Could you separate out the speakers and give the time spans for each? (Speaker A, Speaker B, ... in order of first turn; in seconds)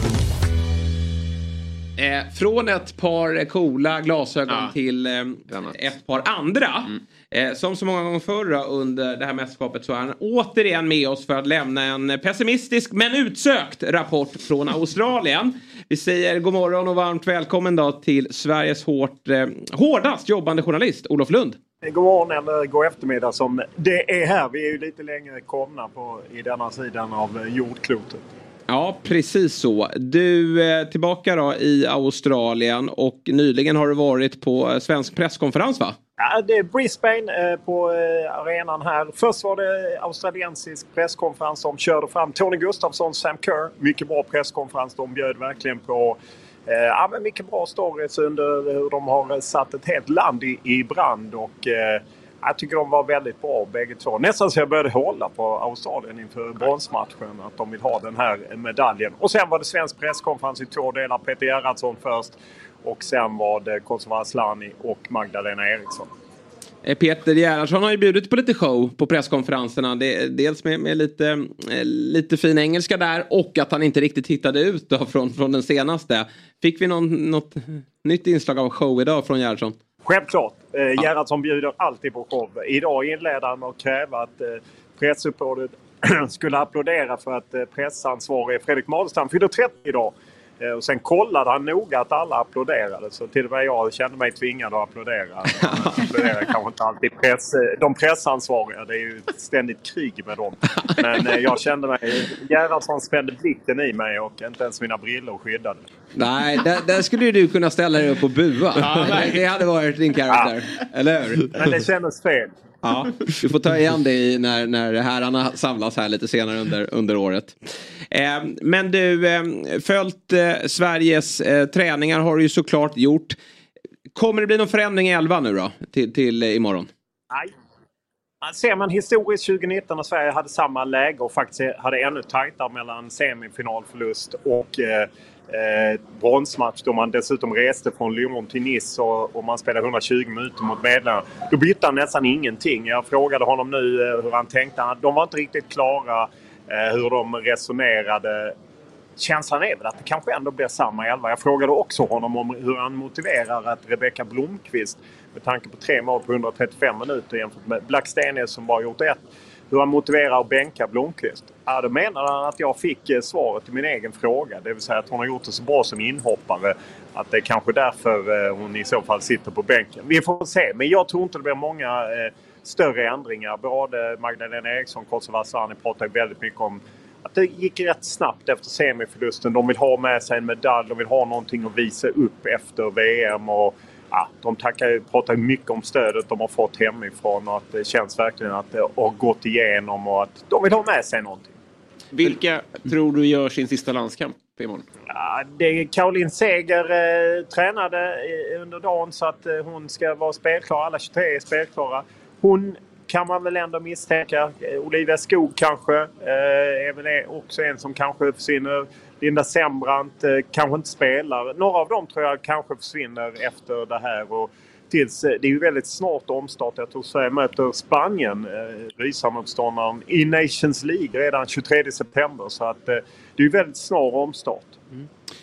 Speaker A: 2.0-21.6, 28.7-36.0, 66.8-79.8, 95.6-96.1, 106.2-111.7, 112.8-123.4, 124.2-126.9
Speaker B: 5.5-5.8, 192.1-194.9
Speaker C: 21.8-28.2, 36.2-66.1, 80.0-105.8, 111.5-112.5, 128.4-148.6, 149.2-191.5, 195.1-224.7